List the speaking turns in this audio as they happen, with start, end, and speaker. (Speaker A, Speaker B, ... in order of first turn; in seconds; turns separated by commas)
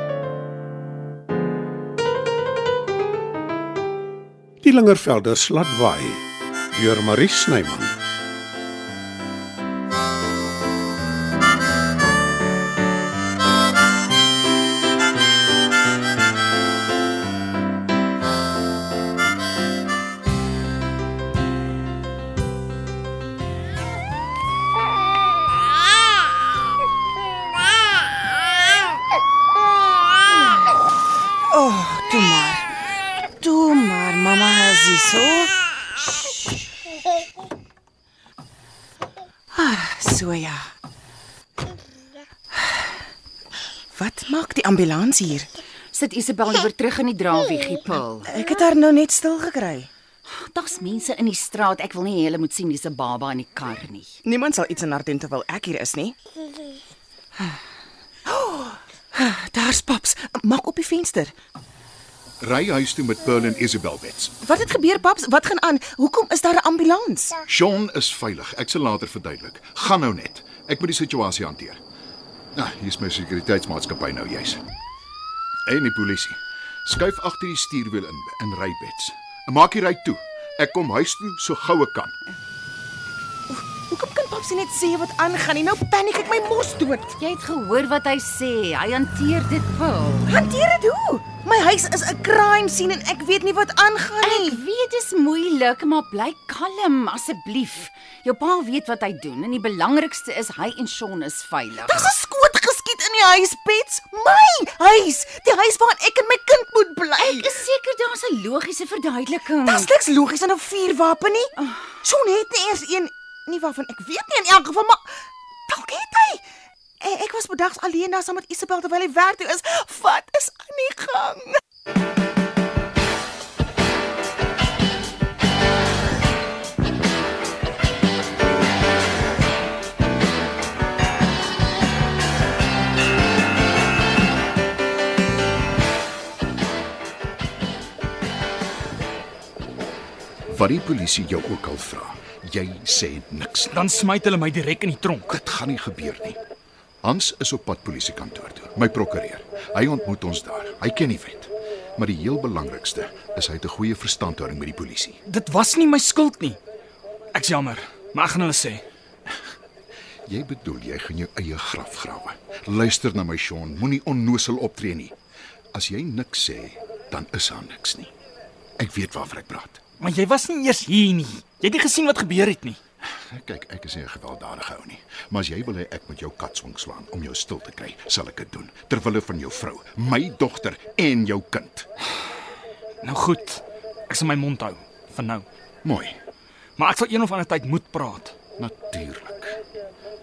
Speaker A: 4.6-8.0, Speaker B: 31.5-32.7, Speaker B: 33.4-35.5, Speaker B: 39.5-40.7, Speaker B: 43.9-45.5, Speaker C: 45.9-48.3, Speaker B: 48.3-49.9, Speaker C: 50.3-54.2, Speaker B: 54.2-56.1, Speaker B: 58.3-61.4, Speaker D: 62.4-64.3, Speaker B: 64.4-67.4, Speaker D: 67.5-71.8, Speaker D: 72.5-74.6, Speaker D: 75.7-82.2, Speaker B: 83.5-87.2, Speaker C: 87.2-90.3, Speaker B: 90.3-94.6, Speaker C: 94.2-102.1, Speaker B: 101.8-107.5, Speaker C: 107.2-109.9, Speaker B: 109.7-111.5, Speaker C: 111.6-111.9, Speaker B: 112.0-116.4, Speaker B: 117.0-121.6, Speaker D: 140.5-143.8, Speaker E: 143.7-145.4, Speaker D: 145.3-146.4, Speaker D: 147.0-155.2, Speaker E: 155.3-156.6, Speaker E: 157.3-158.8, Speaker D: 160.3-165.2, Speaker D: 165.7-168.1, Speaker D: 168.8-169.8, Speaker E: 170.0-172.8, Speaker D: 173.1-181.9, Speaker E: 183.0-185.5, Speaker D: 185.8-186.2, Speaker E: 186.8-188.3, Speaker D: 188.6-189.6